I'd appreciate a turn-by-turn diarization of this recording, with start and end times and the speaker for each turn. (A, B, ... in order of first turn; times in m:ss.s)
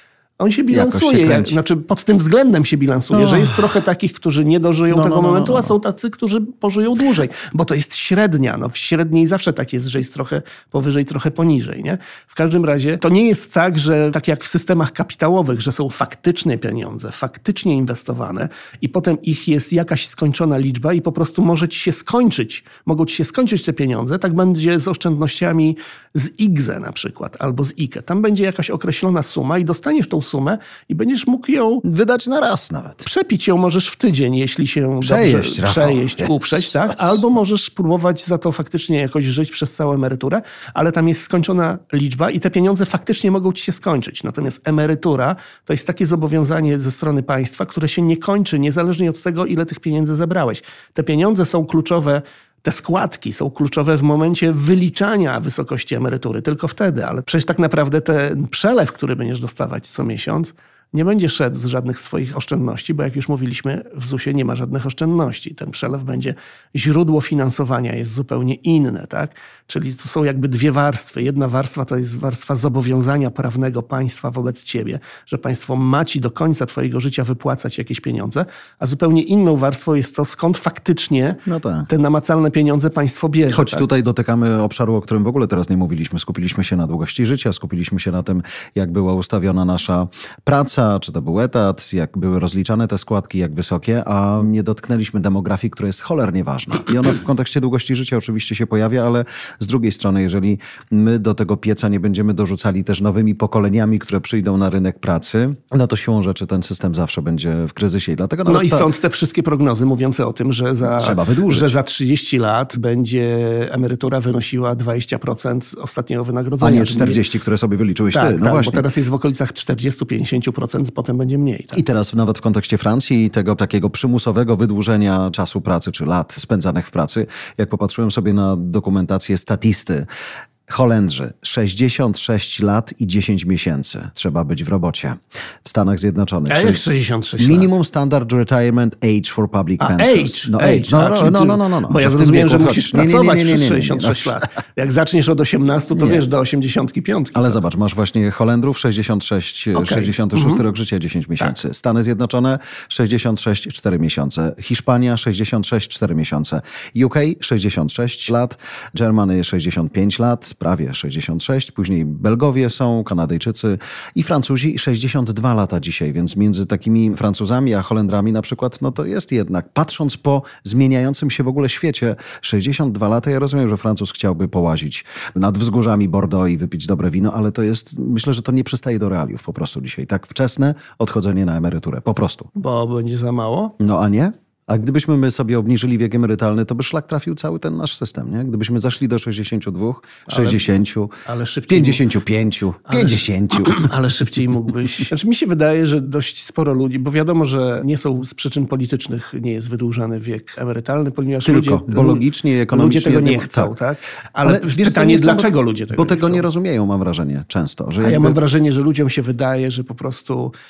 0:00.4-0:31.8 A
0:00.7-0:01.6 B
0:03.1-0:03.8 B
0:04.9-0:05.7 B
0:31.8-0:33.1 B
0:33.0-1:23.9 A
0:35.0-0:36.8 B
1:21.5-1:21.9 B
1:23.5-1:48.9 B
1:48.5-1:57.2 A
1:50.9-1:51.8 B
1:56.6-1:58.9 B
1:58.1-2:01.8 A
2:01.7-2:10.1 B
2:10.7-2:16.8 B
2:16.5-2:17.7 A
2:17.4-2:24.5 B
2:19.8-2:27.6 A
2:26.0-2:26.2 B
2:27.4-3:02.5 B
2:29.8-2:30.6 A
3:02.6-3:03.8 A
3:03.8-3:11.1 B
3:10.3-3:10.7 A
3:11.2-3:12.0 A
3:11.7-3:13.9 B
3:12.9-3:26.4 A
3:21.4-3:23.7 B
3:24.4-3:28.4 B
3:28.0-3:30.5 A